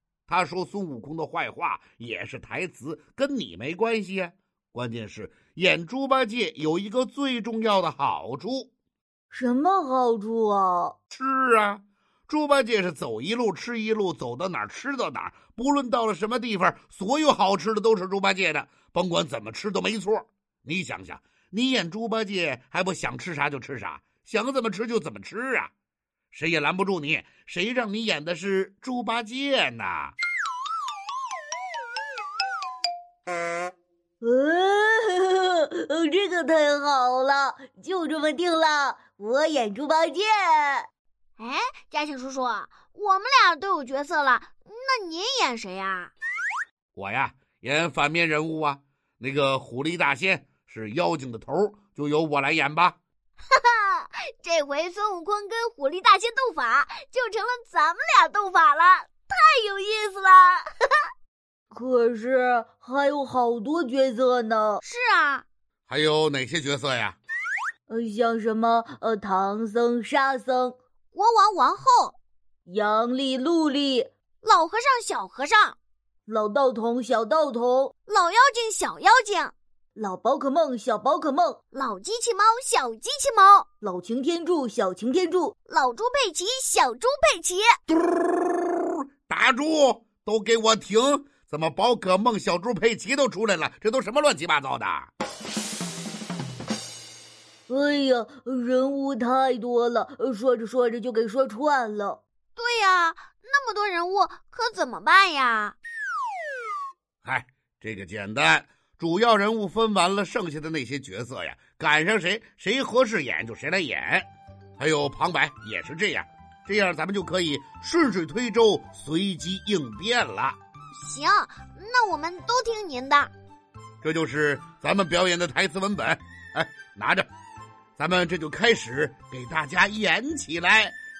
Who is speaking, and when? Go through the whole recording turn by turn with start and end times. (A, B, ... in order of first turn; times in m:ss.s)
0:00.3-0:08.7 A
0:09.3-0:11.0 B
0:11.1-0:25.7 A
0:26.3-0:30.1 A
0:34.2-0:40.9 B
0:41.4-0:46.1 C
0:46.9-0:53.0 A
0:53.5-1:00.6 C
1:01.7-1:04.8 B
1:04.8-1:05.4 C
1:05.9-1:07.2 A
1:07.9-1:10.8 B
1:11.1-1:12.1 C
1:12.6-1:14.1 B
1:14.4-1:15.8 C
1:16.2-1:17.9 B
1:18.1-1:19.5 C
1:20.0-1:21.6 B
1:21.7-1:23.6 C
1:23.8-1:25.5 B
1:25.7-1:27.6 C
1:27.9-1:35.1 A
1:37.7-1:42.2 B
1:42.6-1:45.8 C
1:47.2-2:00.6 A
2:00.9-2:03.3 C
2:04.0-2:07.3 A
2:08.0-2:11.0 A